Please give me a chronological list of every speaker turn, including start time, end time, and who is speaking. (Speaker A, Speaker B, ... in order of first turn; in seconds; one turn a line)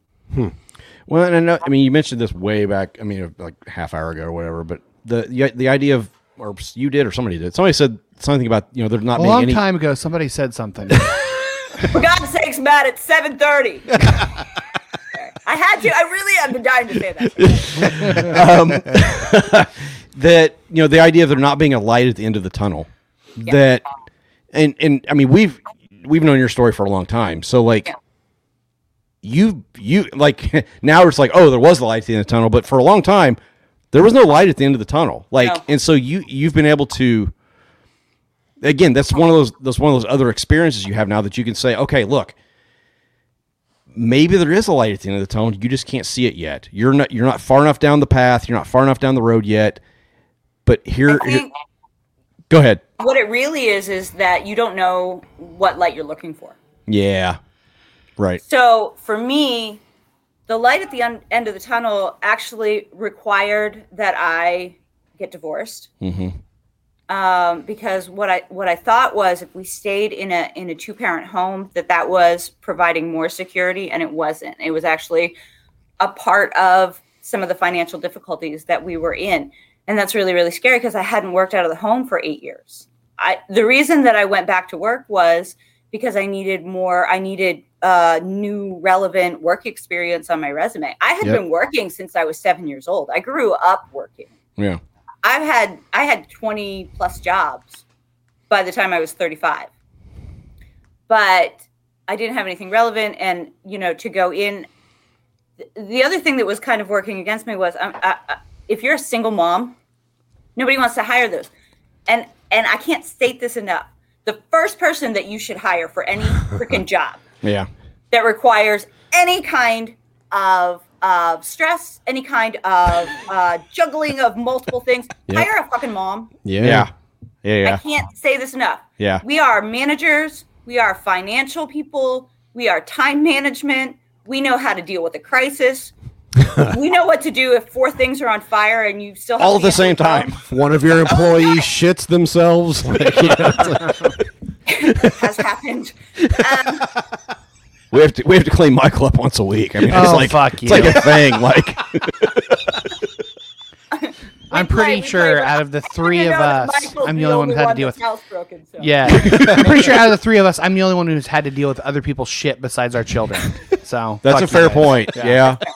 Speaker A: 1.1-9.6
Speaker B: 9.2-11.1
Speaker C: 11.9-13.9
Speaker C: 15.2-17.9
Speaker A: 17.4-22.9
Speaker A: 23.4-23.8
Speaker A: 24.5-27.9
Speaker A: 29.2-33.4
Speaker A: 33.9-37.3
Speaker A: 38.6-42.3
Speaker A: 43.9-49.8
Speaker A: 50.7-51.5
Speaker C: 51.1-51.5
Speaker A: 52.5-52.8
Speaker C: 53.0-56.6
Speaker A: 56.9-57.4
Speaker C: 58.4-59.8
Speaker C: 60.5-65.9
Speaker A: 66.0-66.4
Speaker C: 67.1-75.4
Speaker C: 76.0-94.4
Speaker C: 95.2-97.8
Speaker C: 98.5-99.7
Speaker C: 101.1-104.7
Speaker C: 105.6-109.8
Speaker C: 110.6-111.5
Speaker C: 112.1-117.2
Speaker A: 117.4-117.7
Speaker C: 118.1-126.3
Speaker D: 126.4-126.9
Speaker A: 126.6-126.9
Speaker A: 127.4-127.8
Speaker C: 127.6-135.9
Speaker A: 129.0-129.2
Speaker D: 136.4-136.8
Speaker C: 136.7-140.3
Speaker A: 139.4-140.4
Speaker D: 140.4-144.1
Speaker C: 141.1-141.6
Speaker C: 144.7-146.9
Speaker A: 147.9-152.8
Speaker B: 149.9-151.0
Speaker C: 153.9-159.4
Speaker B: 154.5-158.0
Speaker B: 158.8-165.4
Speaker A: 159.3-159.7
Speaker A: 164.2-165.6